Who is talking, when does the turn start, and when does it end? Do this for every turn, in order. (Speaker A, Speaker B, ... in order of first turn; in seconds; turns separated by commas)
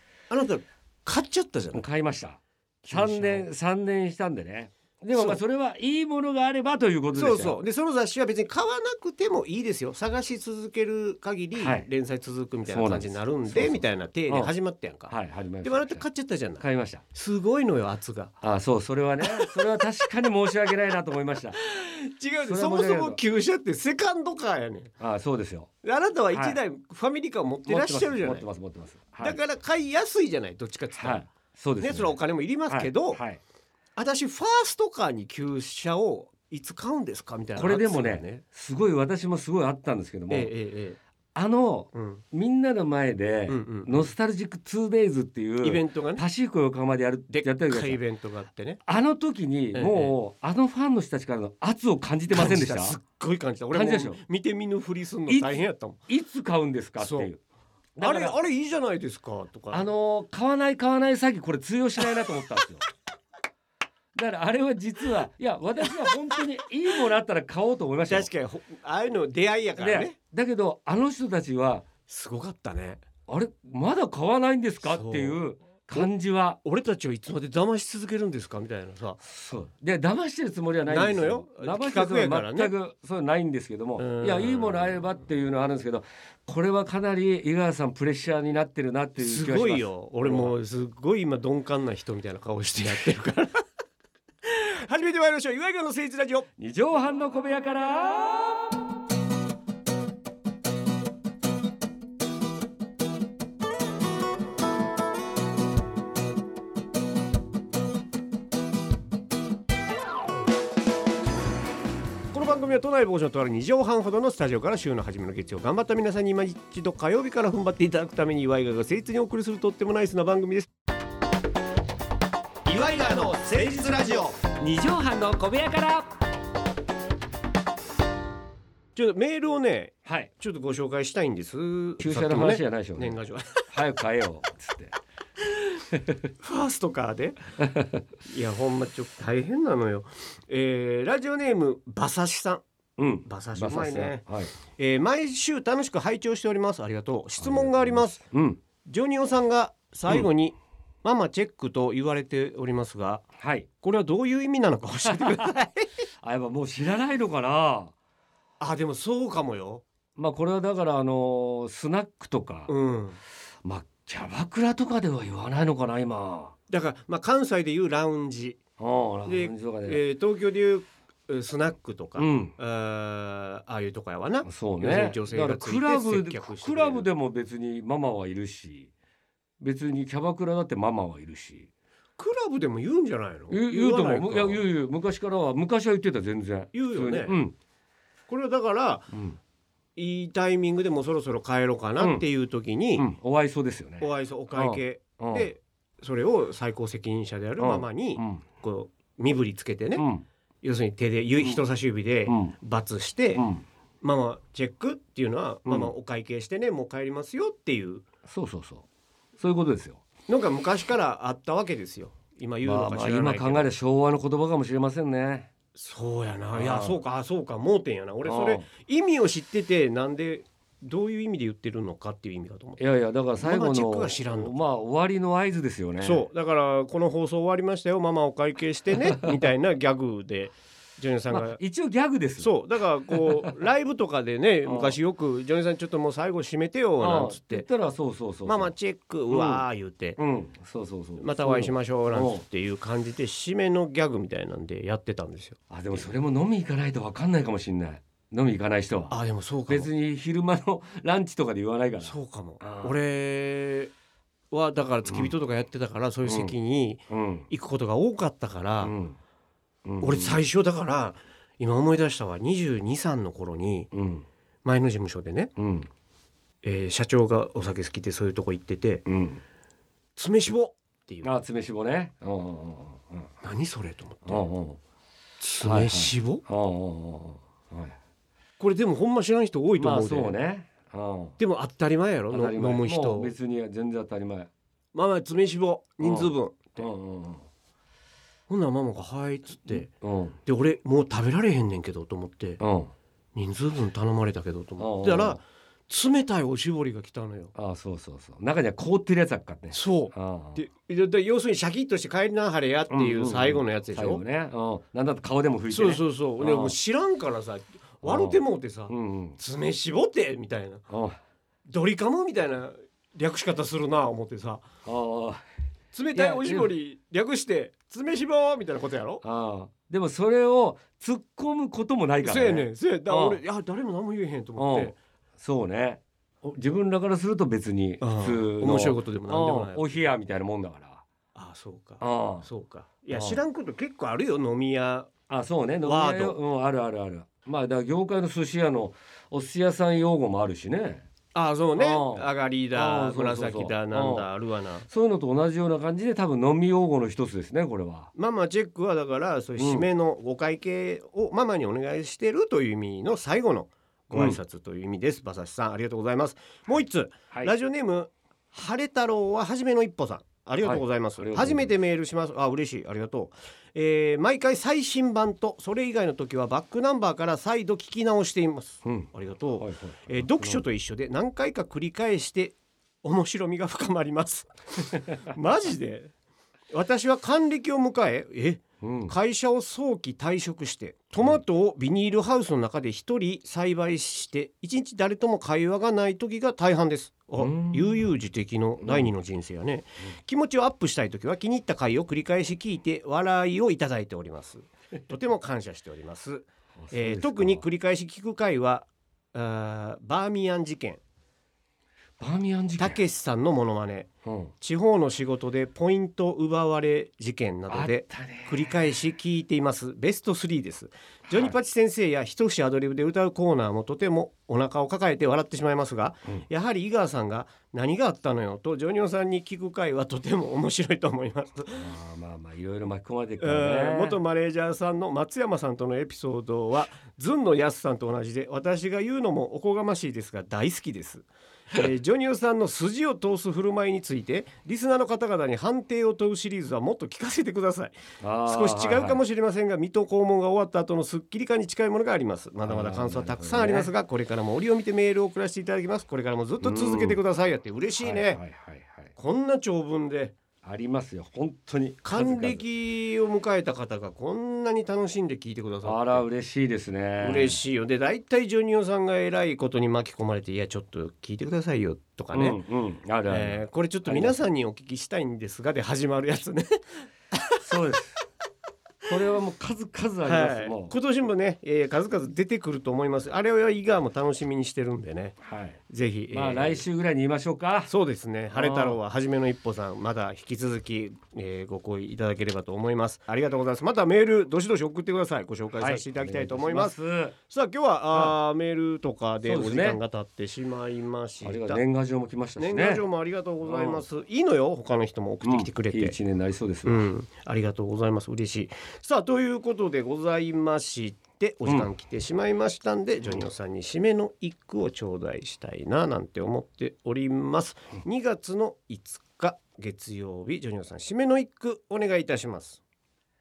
Speaker A: 0.3-1.8, Speaker B: 1.7-7.6, Speaker A: 2.8-3.5, Speaker A: 5.1-5.4, Speaker A: 7.1-18.3, Speaker B: 11.5-11.9, Speaker B: 12.7-14.5, Speaker B: 15.1-16.0, Speaker B: 16.6-17.0, Speaker B: 18.4-21.6, Speaker A: 19.2-19.5, Speaker A: 21.6-24.9, Speaker B: 22.4-23.2, Speaker B: 25.0-25.7, Speaker A: 25.8-28.4, Speaker B: 26.3-26.6, Speaker B: 27.6-29.4, Speaker A: 29.2-31.2, Speaker B: 30.9-33.4, Speaker A: 31.8-33.2, Speaker A: 34.0-38.4, Speaker B: 37.5-40.5, Speaker A: 40.3-41.0, Speaker B: 41.3-48.0, Speaker A: 41.9-42.2, Speaker A: 43.5-44.1, Speaker A: 45.6-46.2, Speaker A: 47.3-48.8, Speaker B: 48.8-53.0, Speaker A: 49.7-50.1, Speaker A: 52.3-56.0, Speaker B: 53.7-54.2, Speaker B: 55.3-57.4, Speaker A: 57.0-57.3, Speaker B: 58.0-58.4, Speaker A: 58.0-59.9, Speaker B: 59.7-62.8, Speaker B: 64.1-68.3, Speaker A: 68.1-70.1, Speaker B: 69.8-71.8, Speaker A: 72.1-73.0, Speaker B: 73.3-76.6, Speaker A: 74.8-75.4, Speaker A: 76.6-79.2, Speaker B: 79.3-90.5, Speaker A: 80.9-82.7, Speaker A: 84.0-85.0, Speaker A: 89.2-93.6, Speaker A: 94.4-96.5, Speaker B: 96.6-98.7, Speaker A: 112.3-120.7, Speaker A: 122.7-124.4, Speaker B: 124.6-126.1, Speaker A: 128.9-133.8, Speaker B: 130.0-130.3, Speaker B: 132.0-133.2, Speaker B: 133.7-134.9, Speaker B: 135.9-136.2, Speaker A: 136.4-137.4, Speaker B: 137.8-138.0, Speaker A: 138.2-142.6, Speaker B: 143.0-144.5, Speaker A: 143.2-144.2, Speaker A: 144.7-148.2, Speaker B: 147.4-148.6, Speaker A: 148.8-153.2, Speaker B: 153.4-153.7, Speaker A: 153.8-155.9, Speaker B: 156.2-157.9, Speaker A: 158.6-159.8, Speaker B: 160.2-162.7, Speaker A: 162.7-163.2, Speaker B: 163.6-166.5, Speaker A: 166.7-168.6, Speaker B: 168.8-170.0, Speaker A: 169.2-177.1, Speaker B: 172.2-172.5, Speaker B: 174.4-178.9, Speaker B: 179.6-181.7, Speaker A: 182.2-184.6, Speaker B: 183.5-187.5, Speaker A: 186.7-187.4, Speaker A: 188.3-189.1, Speaker B: 189.1-189.4, Speaker A: 189.9-193.1, Speaker B: 192.0-192.2, Speaker B: 192.9-195.5, Speaker A: 194.0-200.0, Speaker B: 197.6-198.4, Speaker B: 199.9-200.2, Speaker A: 200.6-203.4, Speaker B: 202.3-202.5, Speaker B: 203.3-203.6, Speaker A: 204.0-208.0, Speaker B: 205.7-205.9, Speaker B: 208.3-208.8, Speaker B: 209.4-210.0, Speaker A: 210.3-213.7, Speaker B: 212.6-215.5, Speaker A: 215.7-222.8, Speaker B: 216.5-217.0, Speaker B: 218.2-218.6, Speaker B: 222.8-226.2, Speaker A: 223.4-224.5, Speaker A: 226.0-231.6, Speaker B: 231.3-232.5, Speaker A: 232.4-237.7, Speaker B: 233.1-233.5, Speaker B: 234.6-235.0, Speaker B: 237.0-238.7, Speaker A: 238.4-240.2, Speaker B: 239.3-239.6, Speaker B: 240.2-242.4, Speaker A: 241.2-246.1, Speaker B: 245.7-249.2, Speaker A: 249.1-249.9, Speaker B: 249.7-253.0, Speaker A: 252.0-253.9, Speaker A: 254.5-258.9, Speaker B: 255.1-255.3, Speaker B: 256.2-256.5, Speaker B: 257.1-257.5, Speaker B: 258.8-259.2, Speaker B: 259.9-260.4, Speaker A: 260.0-263.9, Speaker B: 263.9-264.2, Speaker A: 264.6-265.5, Speaker B: 265.6-265.9, Speaker A: 266.6-269.0, Speaker B: 269.1-269.4, Speaker A: 270.1-271.3, Speaker B: 271.2-273.3, Speaker A: 273.4-274.4, Speaker B: 274.2-274.8, Speaker A: 275.4-276.4, Speaker B: 275.6-278.0, Speaker A: 278.6-280.3, Speaker B: 279.8-281.4, Speaker A: 281.4-283.3, Speaker B: 282.3-284.5, Speaker A: 284.9-286.8, Speaker B: 286.0-287.4, Speaker A: 288.5-289.9, Speaker B: 289.7-290.4, Speaker A: 290.4-292.6, Speaker B: 292.6-292.9, Speaker A: 293.3-297.5, Speaker B: 294.8-295.4, Speaker B: 297.5-300.6, Speaker A: 299.7-304.2, Speaker B: 302.9-306.8, Speaker A: 305.7-310.8, Speaker B: 308.0-309.4, Speaker B: 310.9-311.2, Speaker A: 311.7-314.6, Speaker B: 314.8-315.4, Speaker A: 315.9-319.2, Speaker B: 316.1-316.7, Speaker B: 319.2-323.4, Speaker A: 322.2-325.0, Speaker B: 324.6-331.0, Speaker A: 328.0-330.0, Speaker A: 331.3-335.1, Speaker B: 332.0-332.5, Speaker B: 333.1-333.4, Speaker B: 335.3-341.1, Speaker A: 335.8-336.4, Speaker A: 341.3-344.9, Speaker B: 341.8-344.3, Speaker B: 344.9-348.1, Speaker A: 348.1-376.1, Speaker B: 349.6-349.9, Speaker B: 354.1-354.4, Speaker B: 360.6-361.7, Speaker B: 368.8-370.6, Speaker A: 376.7-401.0, Speaker B: 378.8-379.1, Speaker B: 387.4-388.1, Speaker B: 388.8-389.1, Speaker B: 396.8-397.6, Speaker B: 402.2-403.0, Speaker A: 402.8-404.1, Speaker B: 404.2-404.5, Speaker A: 404.6-421.9, Speaker B: 407.7-408.7, Speaker B: 411.3-411.5, Speaker B: 421.7-424.2, Speaker A: 423.4-448.4, Speaker B: 438.2-439.2, Speaker B: 442.6-443.9, Speaker B: 446.6-447.2, Speaker B: 448.0-449.1, Speaker A: 449.1-450.4, Speaker B: 450.6-452.6, Speaker A: 452.0-456.2, Speaker B: 455.8-457.6, Speaker A: 457.2-462.6, Speaker B: 462.3-464.4, Speaker A: 463.3-466.7, Speaker B: 467.6-468.2, Speaker B: 469.1-470.9, Speaker A: 470.2-475.4, Speaker B: 475.4-475.8, Speaker A: 475.9-476.8, Speaker B: 476.3-477.9, Speaker A: 477.9-487.0, Speaker B: 478.5-479.0, Speaker B: 485.7-487.3, Speaker A: 487.5-491.8, Speaker B: 489.4-490.0, Speaker B: 491.4-493.0, Speaker A: 492.6-496.2, Speaker B: 493.6-494.0, Speaker B: 495.4-497.1, Speaker A: 496.8-512.8